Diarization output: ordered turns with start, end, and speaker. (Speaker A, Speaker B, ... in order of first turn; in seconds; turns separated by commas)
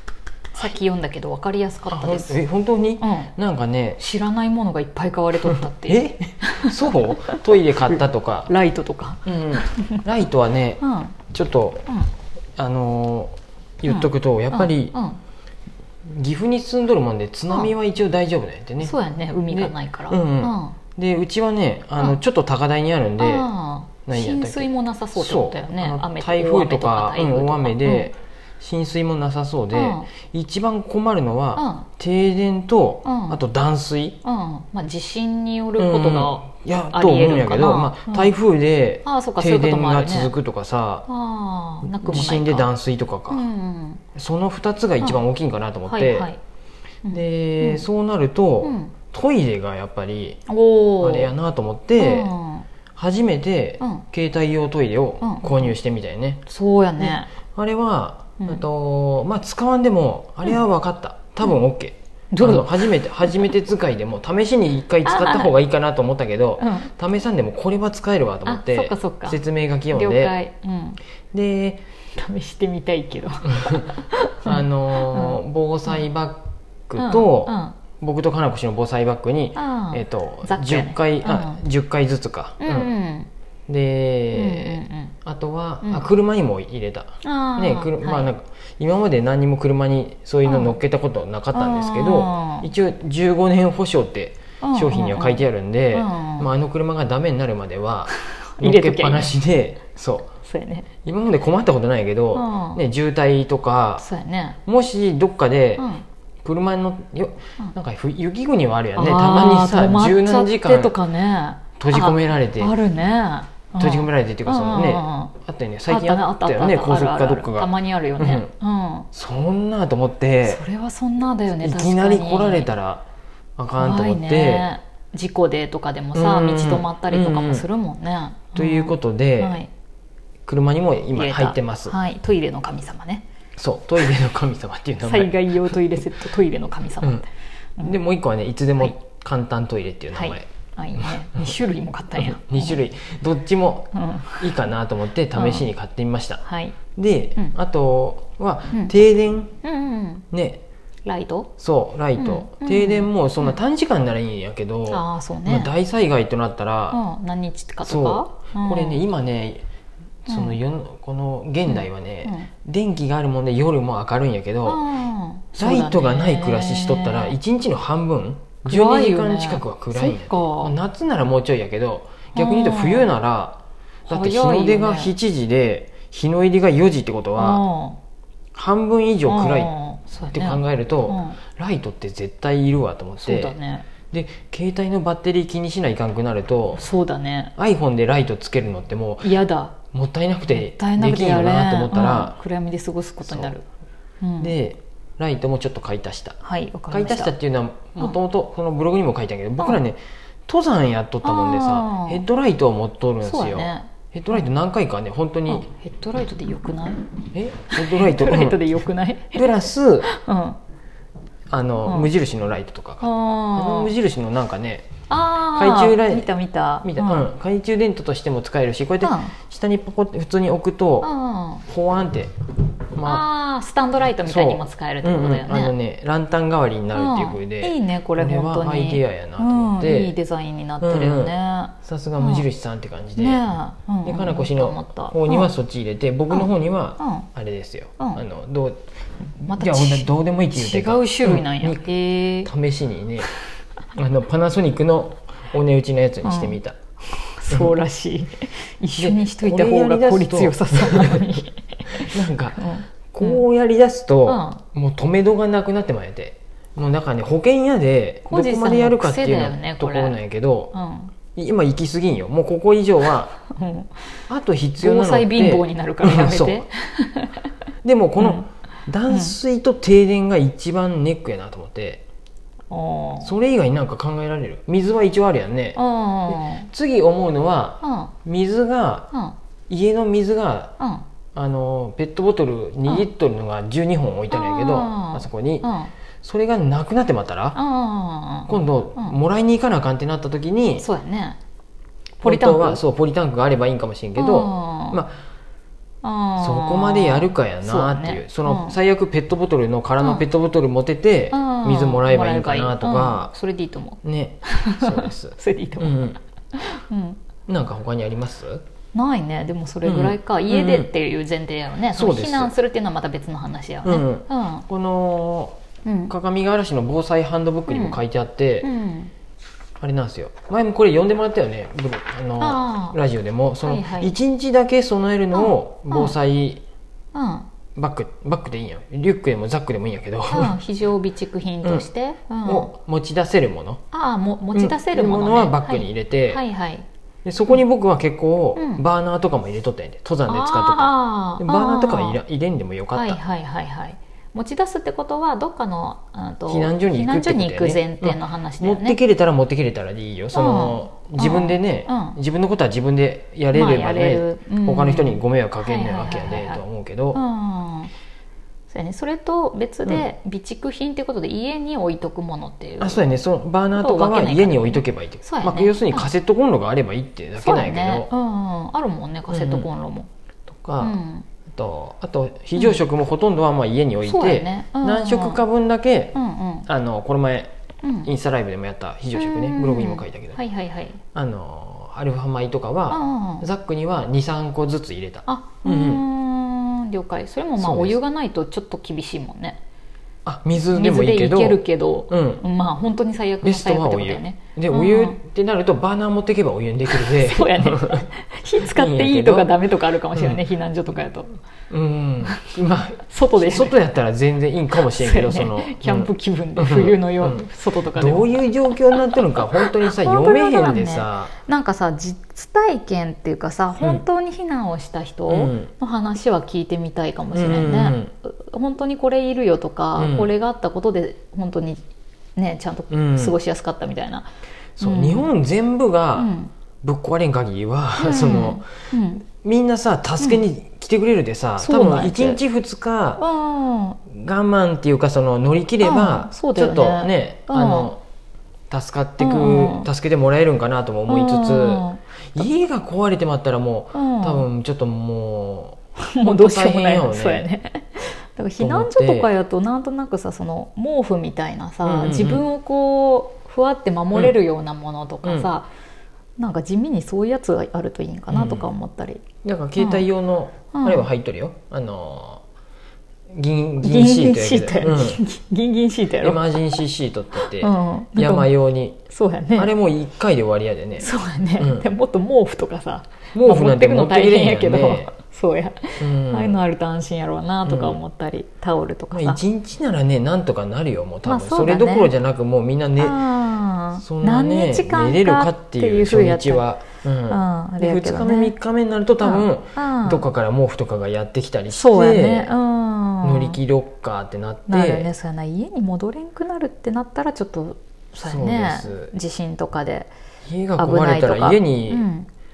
Speaker A: 0.5-2.4, Speaker B: 1.9-4.0, Speaker A: 3.0-3.3, Speaker A: 4.0-10.1, Speaker B: 5.4-8.5, Speaker B: 9.2-11.9, Speaker A: 10.8-11.2, Speaker B: 12.6-14.9, Speaker A: 13.8-15.2, Speaker B: 16.1-18.9, Speaker A: 18.8-20.8, Speaker B: 19.5-23.5, Speaker A: 23.2-28.1, Speaker B: 24.0-34.2, Speaker A: 29.7-30.1, Speaker A: 31.6-31.9, Speaker A: 33.0-33.4, Speaker A: 34.2-38.3, Speaker B: 35.8-41.1, Speaker A: 39.0-40.3, Speaker A: 41.1-42.7, Speaker B: 41.9-43.4, Speaker A: 43.3-44.0, Speaker B: 44.1-46.3, Speaker A: 45.9-46.4, Speaker A: 47.0-47.8, Speaker B: 47.1-50.4, Speaker A: 48.6-48.9, Speaker A: 50.5-51.3, Speaker B: 51.0-52.3, Speaker A: 52.0-52.7, Speaker B: 52.9-56.4, Speaker A: 53.8-54.0, Speaker A: 55.2-55.7, Speaker A: 56.5-57.3, Speaker B: 57.0-70.3, Speaker A: 58.4-58.6, Speaker A: 62.3-63.3, Speaker A: 65.0-65.5, Speaker A: 66.6-66.9, Speaker A: 68.4-69.4, Speaker A: 69.9-71.0, Speaker B: 71.3-71.8, Speaker A: 72.2-75.9, Speaker B: 74.4-82.9, Speaker A: 77.0-77.8, Speaker A: 79.5-81.6, Speaker A: 82.6-83.3, Speaker B: 83.7-100.3, Speaker A: 84.3-85.1, Speaker A: 87.2-88.3, Speaker A: 90.4-90.8, Speaker A: 91.5-92.7, Speaker A: 94.6-96.5, Speaker A: 98.1-99.3, Speaker A: 100.4-100.9, Speaker B: 101.0-104.0, Speaker A: 102.3-102.8, Speaker A: 104.0-104.6, Speaker B: 104.6-105.9, Speaker A: 105.8-106.0, Speaker B: 106.4-111.0, Speaker A: 108.9-115.3, Speaker B: 111.8-112.7, Speaker B: 113.8-118.5, Speaker A: 115.9-119.1, Speaker B: 119.1-120.6, Speaker A: 120.4-122.7, Speaker B: 121.5-123.0, Speaker B: 123.6-124.7, Speaker A: 123.8-129.7, Speaker B: 126.1-127.7, Speaker B: 128.5-129.6, Speaker B: 130.4-131.9, Speaker A: 131.1-133.2, Speaker B: 133.6-135.8, Speaker A: 135.0-137.2, Speaker B: 137.8-141.1, Speaker A: 140.1-142.8, Speaker B: 142.1-149.5, Speaker A: 143.9-144.6, Speaker A: 145.3-145.7, Speaker A: 146.4-146.8, Speaker A: 149.6-150.2, Speaker B: 150.3-150.6, Speaker A: 151.1-151.5, Speaker B: 151.6-157.0, Speaker A: 152.1-153.6, Speaker A: 154.9-155.7, Speaker A: 156.9-159.0, Speaker B: 157.8-159.6, Speaker B: 160.2-164.8, Speaker A: 160.3-160.6, Speaker A: 161.7-162.5, Speaker A: 164.6-167.4, Speaker B: 165.6-177.6, Speaker A: 168.6-170.8, Speaker A: 172.3-173.1, Speaker A: 174.1-175.2, Speaker A: 177.3-178.0, Speaker B: 178.5-179.7, Speaker A: 179.2-181.4, Speaker B: 180.3-186.8, Speaker A: 183.2-183.9, Speaker A: 186.8-187.5, Speaker B: 187.6-192.4, Speaker A: 189.2-189.8, Speaker A: 190.5-193.6, Speaker B: 193.2-193.5, Speaker A: 194.2-194.5, Speaker B: 194.4-196.4, Speaker A: 196.4-197.3, Speaker B: 196.9-205.7, Speaker A: 201.2-202.2, Speaker A: 203.2-203.9, Speaker A: 205.5-207.0, Speaker B: 207.3-208.6, Speaker A: 207.7-210.6, Speaker B: 209.3-210.1, Speaker B: 211.5-214.9, Speaker A: 211.8-212.1, Speaker A: 213.0-213.9, Speaker A: 215.1-217.3, Speaker B: 215.5-216.3, Speaker B: 216.8-221.1, Speaker A: 219.0-219.3, Speaker A: 221.0-221.6, Speaker B: 221.7-222.3, Speaker B: 222.9-223.2, Speaker A: 223.0-225.7, Speaker B: 224.2-230.2, Speaker A: 226.9-232.5, Speaker B: 230.8-233.4, Speaker A: 233.2-235.5, Speaker B: 234.0-238.8, Speaker A: 236.3-237.3, Speaker B: 239.4-243.3, Speaker A: 239.4-242.5, Speaker B: 243.9-246.8, Speaker A: 246.2-246.6, Speaker A: 247.1-253.4, Speaker B: 247.5-247.8, Speaker B: 249.0-251.4, Speaker B: 252.0-260.7, Speaker A: 254.2-254.6, Speaker A: 258.2-260.2, Speaker A: 260.7-261.1, Speaker B: 261.3-263.3, Speaker A: 263.5-263.9, Speaker B: 264.3-266.6, Speaker A: 264.8-267.3, Speaker B: 267.8-272.0, Speaker A: 268.2-268.4, Speaker A: 269.1-269.4, Speaker A: 272.7-273.3, Speaker B: 273.2-279.1, Speaker A: 275.7-276.7, Speaker A: 277.8-278.1, Speaker B: 279.7-280.7, Speaker A: 280.8-281.0, Speaker B: 281.3-285.7, Speaker A: 284.3-285.9, Speaker B: 286.2-287.6, Speaker A: 287.5-289.1, Speaker B: 288.5-290.9, Speaker A: 290.8-291.4, Speaker A: 292.2-292.8, Speaker B: 292.2-295.2, Speaker A: 294.1-295.0, Speaker A: 296.0-298.8, Speaker B: 296.4-303.3, Speaker A: 301.3-307.2, Speaker B: 304.0-306.2, Speaker B: 307.5-308.6, Speaker A: 308.9-314.6, Speaker B: 309.8-310.9, Speaker B: 311.9-312.5, Speaker B: 313.8-315.6, Speaker A: 315.8-316.1, Speaker B: 316.1-318.7, Speaker A: 317.7-318.0, Speaker A: 318.6-319.1, Speaker B: 319.8-326.6, Speaker A: 322.4-323.0, Speaker A: 323.6-324.1, Speaker A: 325.3-326.1, Speaker A: 327.1-327.5, Speaker B: 327.7-330.6, Speaker A: 330.3-332.7, Speaker B: 332.4-333.8, Speaker A: 333.9-336.9, Speaker B: 334.5-336.4, Speaker B: 337.2-343.2, Speaker A: 338.5-338.8, Speaker A: 340.3-342.2, Speaker A: 342.9-349.0, Speaker B: 346.5-357.2, Speaker A: 350.3-352.2, Speaker A: 353.5-356.6, Speaker A: 357.1-357.9, Speaker A: 358.7-363.1, Speaker B: 362.8-368.1, Speaker A: 363.7-366.1, Speaker A: 367.4-370.1, Speaker B: 369.3-369.7, Speaker B: 370.5-370.9, Speaker A: 370.8-371.3, Speaker B: 371.5-377.5, Speaker A: 374.0-375.4, Speaker A: 376.1-376.7, Speaker A: 377.8-378.1, Speaker B: 378.0-380.4, Speaker A: 379.1-381.0, Speaker B: 381.1-386.0, Speaker A: 382.9-383.5, Speaker A: 385.2-389.6, Speaker B: 387.6-388.0, Speaker B: 390.2-392.4, Speaker A: 390.7-395.1, Speaker B: 393.4-398.1, Speaker A: 396.9-401.4, Speaker B: 398.6-399.5, Speaker B: 400.1-400.4, Speaker B: 401.7-411.3, Speaker A: 403.0-403.8, Speaker A: 404.9-421.8, Speaker B: 415.3-415.7, Speaker B: 417.3-418.1, Speaker B: 419.9-420.3, Speaker A: 422.4-424.3, Speaker B: 422.9-423.4, Speaker B: 424.8-426.3, Speaker A: 424.8-425.3, Speaker A: 426.1-426.5, Speaker B: 426.8-428.7, Speaker A: 428.0-429.2, Speaker B: 429.2-433.2, Speaker A: 430.2-430.4, Speaker A: 431.6-432.4, Speaker A: 433.2-434.0, Speaker B: 434.0-438.0, Speaker A: 435.8-437.9, Speaker B: 438.7-447.5, Speaker A: 439.2-439.9, Speaker A: 441.1-442.0, Speaker A: 443.9-444.4, Speaker A: 446.1-455.7, Speaker B: 448.6-449.3, Speaker B: 451.8-452.4, Speaker B: 455.2-455.5, Speaker A: 456.4-459.2, Speaker B: 458.3-458.7, Speaker B: 459.4-462.4, Speaker A: 459.8-460.1, Speaker A: 460.7-461.1, Speaker B: 463.3-465.2, Speaker A: 463.8-466.8, Speaker B: 466.2-469.0, Speaker A: 467.4-468.5, Speaker A: 469.1-469.7, Speaker B: 469.5-471.9, Speaker A: 471.0-479.4, Speaker B: 473.3-475.1, Speaker B: 476.0-476.6, Speaker B: 477.6-478.0, Speaker B: 479.1-483.2, Speaker A: 481.2-482.1, Speaker A: 483.0-486.6, Speaker B: 484.0-492.5, Speaker A: 487.3-488.5, Speaker A: 489.2-490.2, Speaker A: 491.7-493.6, Speaker B: 493.2-495.1, Speaker A: 494.7-500.1, Speaker B: 498.2-499.1, Speaker B: 500.4-502.1, Speaker A: 500.8-502.3